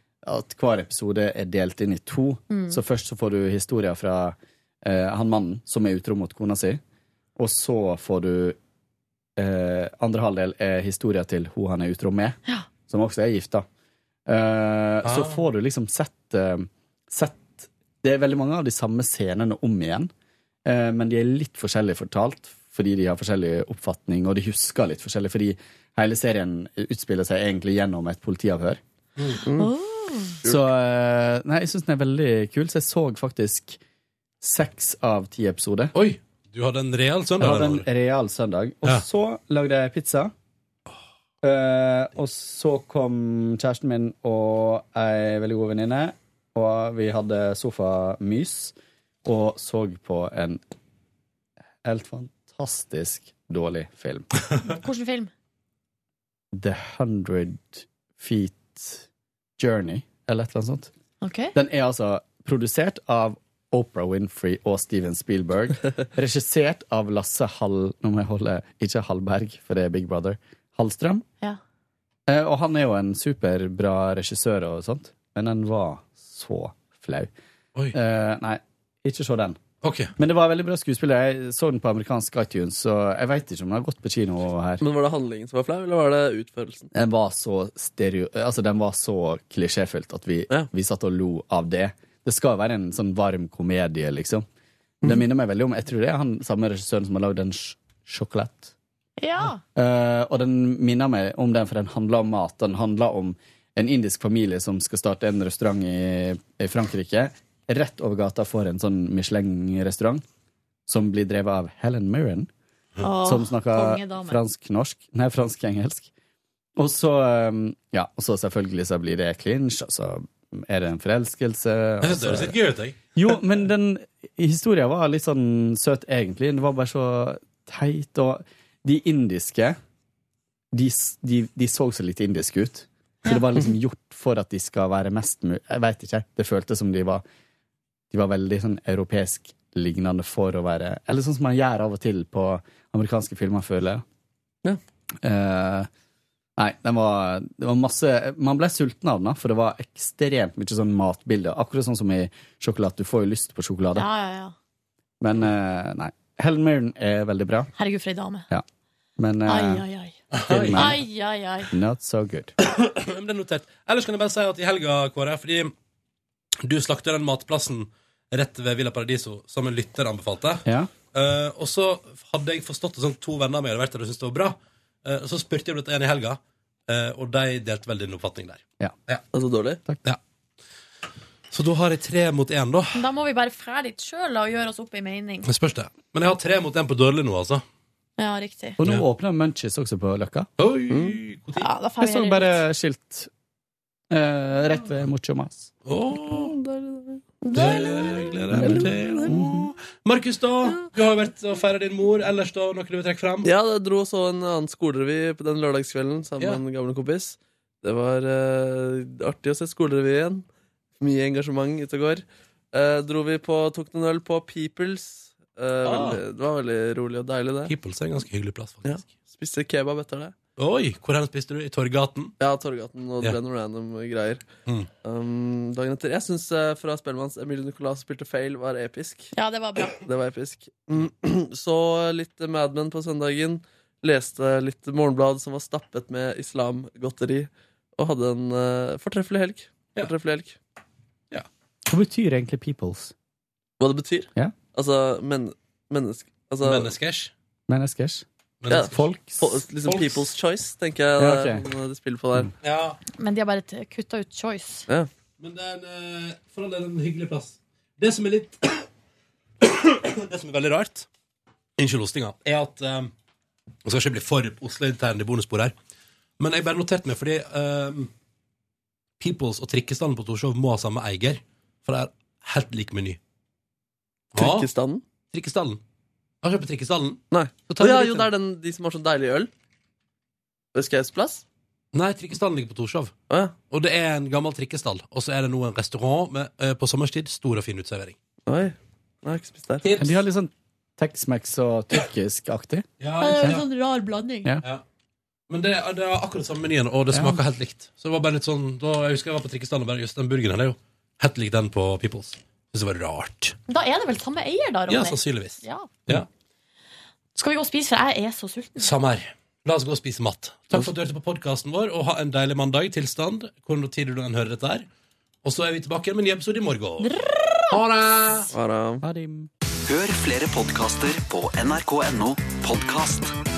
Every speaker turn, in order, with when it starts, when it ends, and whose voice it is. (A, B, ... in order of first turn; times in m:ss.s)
0:00.2-0:06.8 A
0:02.5-0:02.8 B
0:07.4-0:08.6 A
0:09.4-0:13.6 A
0:14.2-0:20.1 A
0:15.0-0:15.4 C
0:20.6-0:28.8 A
0:29.4-0:29.7 D
0:29.6-0:30.4 B
0:30.4-0:30.7 D
0:30.4-0:33.8 A
0:34.4-0:35.9 A
0:35.9-0:37.9 C
0:37.4-0:40.3 A
0:41.4-0:50.6 A
0:51.8-0:54.3 A
0:54.6-0:55.3 B
0:56.5-0:59.0 A
0:59.6-1:00.9 A
1:01.2-1:01.5 B
1:01.5-1:11.2 A
1:12.3-1:17.3 A
1:17.9-1:19.6 A
1:19.8-1:20.1 C
1:20.2-1:24.8 A
1:24.8-1:26.9 D
1:26.9-1:34.4 A
1:35.0-1:38.7 A
1:39.2-1:39.6 B
1:39.6-1:50.2 A
1:50.9-1:52.5 A
1:53.0-1:54.4 B
1:53.2-1:56.1 A
1:56.8-2:02.6 A
2:02.0-2:03.0 C
2:03.1-2:09.8 A
2:10.7-2:17.2 A
2:18.1-2:24.0 A
2:25.2-2:25.9 A
2:26.6-2:34.1 A
2:33.9-2:34.5 B
2:35.2-2:37.7 A
2:37.8-2:38.4 B
2:39.2-2:39.8 A
2:39.4-2:40.2 B
2:40.3-2:41.0 C
2:40.5-2:41.0 A
2:40.7-2:41.7 B
2:41.7-2:42.5 A
2:42.7-2:45.7 C
2:46.6-2:59.2 C
2:50.6-2:50.9 A
2:59.3-2:59.8 D
3:01.5-3:03.0 C
3:02.9-3:05.5 B
3:05.4-3:07.6 C
3:08.2-3:08.8 B
3:08.8-3:10.5 A
3:10.6-3:11.7 C
3:10.9-3:11.2 D
3:11.6-3:12.6 B
3:12.0-3:13.3 A
3:14.1-3:15.7 A
3:15.8-3:16.5 C
3:16.3-3:17.2 D
3:17.4-3:18.3 B
3:17.5-3:23.5 C
3:18.5-3:19.6 A
3:18.6-3:19.4 D
3:23.4-3:30.4 D
3:31.0-3:37.7 D
3:35.8-3:36.2 C
3:37.6-3:39.0 C
3:38.8-3:40.3 D
3:40.6-3:42.4 C
3:42.4-3:44.4 D
3:45.0-3:49.3 D
3:49.3-3:50.0 B
3:50.0-4:00.6 D
4:01.9-4:03.1 A
4:03.8-4:06.9 D
4:06.6-4:07.3 C
4:07.7-4:08.2 A
4:08.6-4:09.0 C
4:08.7-4:12.5 D
4:08.9-4:09.6 A
4:09.8-4:10.2 C
4:11.2-4:11.6 A
4:12.6-4:13.0 C
4:13.2-4:14.8 B
4:15.4-4:18.9 C
4:19.6-4:21.1 C
4:21.8-4:23.1 C
4:23.8-4:25.7 C
4:26.4-4:28.1 C
4:29.2-4:33.2 C
4:34.3-4:35.0 D
4:34.3-4:34.7 C
4:35.3-4:35.8 C
4:36.4-4:38.3 C
4:37.3-4:39.5 D
4:40.7-4:41.4 D
4:41.9-4:43.1 C
4:43.3-4:43.5 D
4:43.7-4:48.2 C
4:48.5-4:49.8 D
4:49.8-4:50.2 C
4:50.0-4:52.8 A
4:53.0-4:53.6 C
4:53.2-4:54.5 B
4:55.5-5:03.6 C
4:57.1-4:57.4 A
5:03.7-5:05.9 B
5:04.9-5:06.3 C
5:07.4-5:08.9 B
5:08.8-5:14.9 C
5:15.4-5:17.2 C
5:17.0-5:17.8 B
5:17.7-5:18.5 C
5:18.5-5:19.0 D
5:19.0-5:19.5 A
5:19.9-5:23.3 E